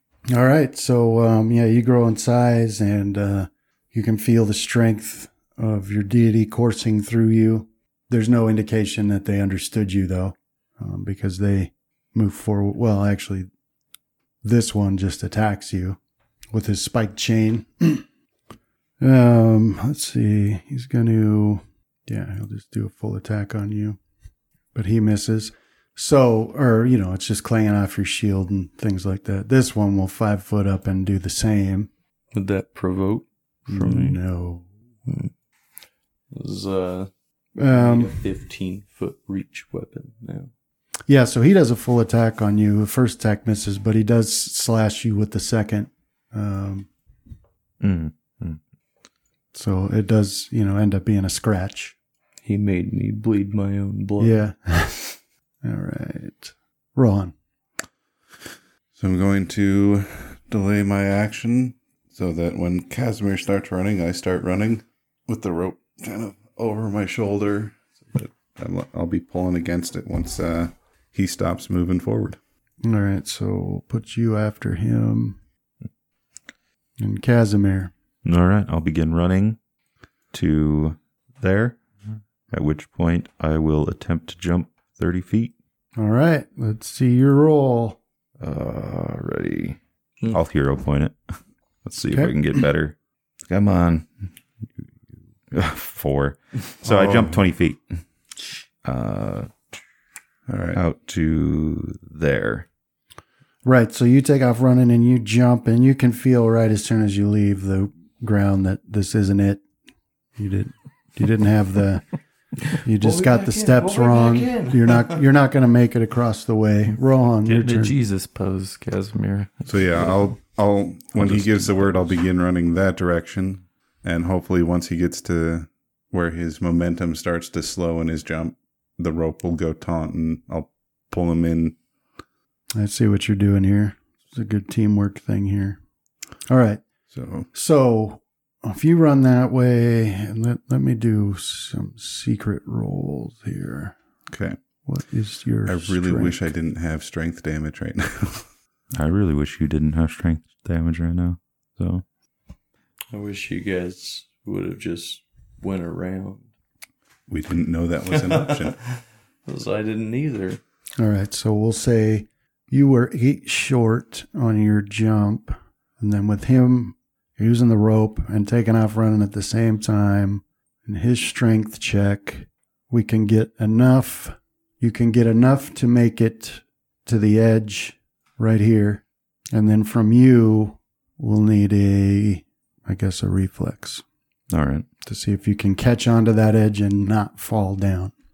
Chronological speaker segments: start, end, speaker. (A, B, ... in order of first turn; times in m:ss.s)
0:00.3-0:13.5 A
0:14.4-0:16.0 A
0:16.5-0:18.0 A
0:19.0-0:24.0 A
0:24.7-0:31.9 A
0:32.3-0:34.2 B
0:33.7-0:34.7 A
0:35.1-0:35.3 B
0:36.3-0:37.1 B
0:37.6-0:38.2 A
0:37.7-0:40.5 B
0:41.1-0:46.9 A
0:47.8-0:48.6 C
0:49.5-0:52.0 A
0:52.4-0:54.4 B
0:54.2-0:57.3 A
0:59.0-1:12.4 D
1:12.8-1:15.4 A
1:17.0-1:17.9 A
1:18.2-1:19.6 C
1:20.3-1:21.8 C
1:22.5-1:25.5 C
1:26.0-1:28.0 A
1:28.4-1:33.0 C
1:33.5-1:34.3 C
1:35.5-1:38.0 C
1:36.9-1:37.2 D
1:38.8-1:39.6 C
1:40.5-1:40.8 D
1:40.7-1:42.7 C
1:43.6-1:49.6 A
1:50.4-1:52.1 A
1:52.7-1:57.9 A
1:53.0-1:55.2 B
1:57.4-2:00.3 E
1:59.7-2:11.8 D
2:01.2-2:02.2 E
2:12.8-2:15.8 A
2:16.5-2:16.8 A
2:17.1-2:17.5 D
2:17.5-2:24.0 A
2:24.3-2:24.6 D
2:24.8-2:26.5 A
2:25.7-2:28.5 D
2:29.0-2:32.0 C
2:33.1-2:36.5 B
2:37.3-2:38.8 D
2:38.1-2:38.9 B
2:39.5-2:40.6 B
2:41.0-3:04.0 A
3:04.5-3:04.9 C
3:05.0-3:08.1 A